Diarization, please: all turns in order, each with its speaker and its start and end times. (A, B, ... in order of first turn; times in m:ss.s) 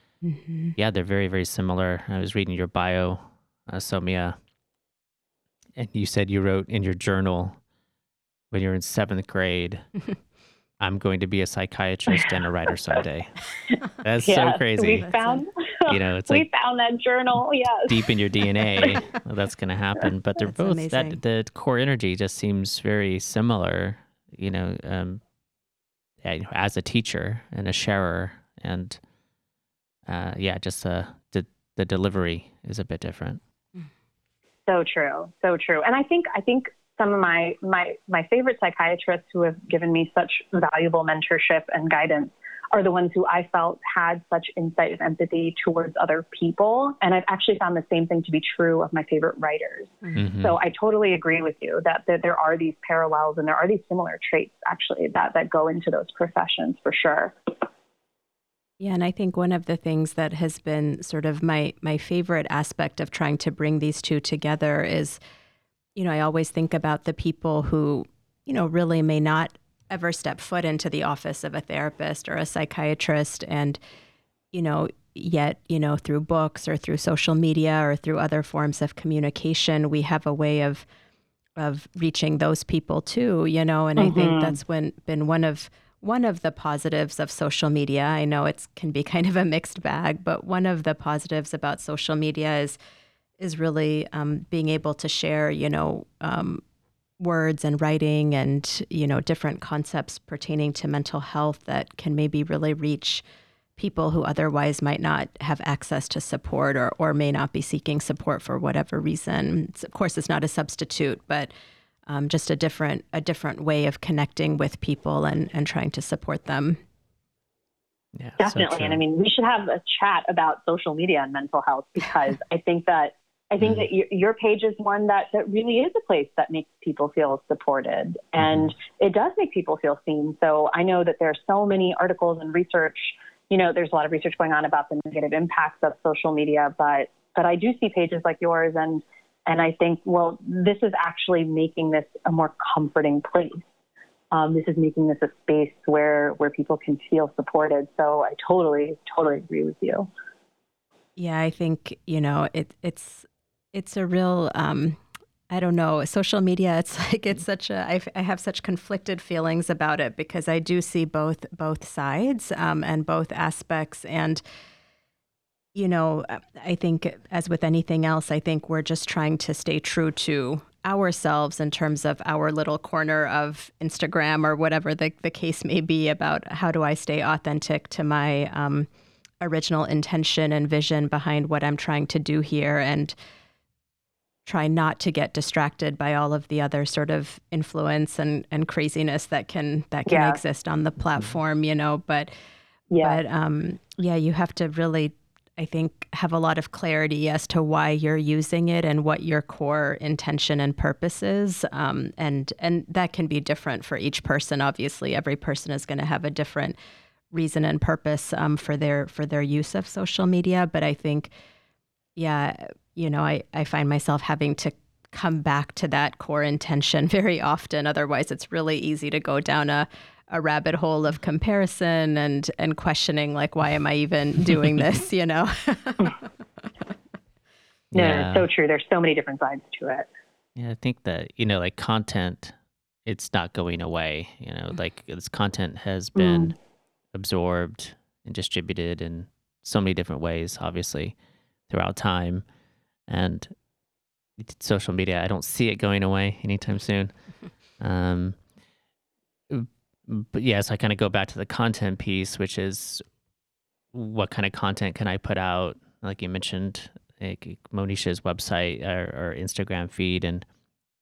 0:00.2-0:00.7 A
0:00.8-0:04.4 B
0:05.7-0:07.6 B
0:08.5-0:09.9 B
0:10.8-0:13.4 B
0:13.7-0:18.0 C
0:14.0-0:15.1 B
0:15.0-0:15.4 A
0:15.8-0:16.5 B
0:17.8-0:25.2 B
0:20.4-0:21.2 A
0:26.2-0:29.0 B
0:30.0-0:33.4 B
0:34.7-0:57.5 C
0:50.1-0:50.6 B
0:58.8-1:05.2 A
1:06.0-1:13.8 A
1:14.5-1:20.8 A
1:21.6-1:32.8 A
1:24.0-1:24.6 C
1:33.4-1:36.6 A
1:37.2-1:43.2 A
1:43.8-1:51.5 A
1:52.0-1:56.8 A
1:58.1-1:59.0 B
1:58.4-2:23.6 C
2:08.4-2:08.7 B
2:24.3-2:30.1 C
2:31.2-2:44.4 A
2:45.7-2:58.9 A
2:59.4-3:03.1 A
3:04.4-3:12.3 A
3:10.1-3:10.4 C
3:12.9-3:13.2 C
3:13.0-3:26.8 A
3:27.3-3:31.3 A
3:32.2-3:46.2 A
3:47.9-3:48.5 B
3:47.9-3:50.1 C
3:50.6-3:56.6 B
3:56.1-3:56.5 C
3:57.1-4:01.1 B
4:01.7-4:02.4 B
4:03.1-4:03.5 B
4:04.4-4:07.1 B
4:07.8-4:08.4 B
4:09.5-4:13.0 B
4:13.9-4:20.4 B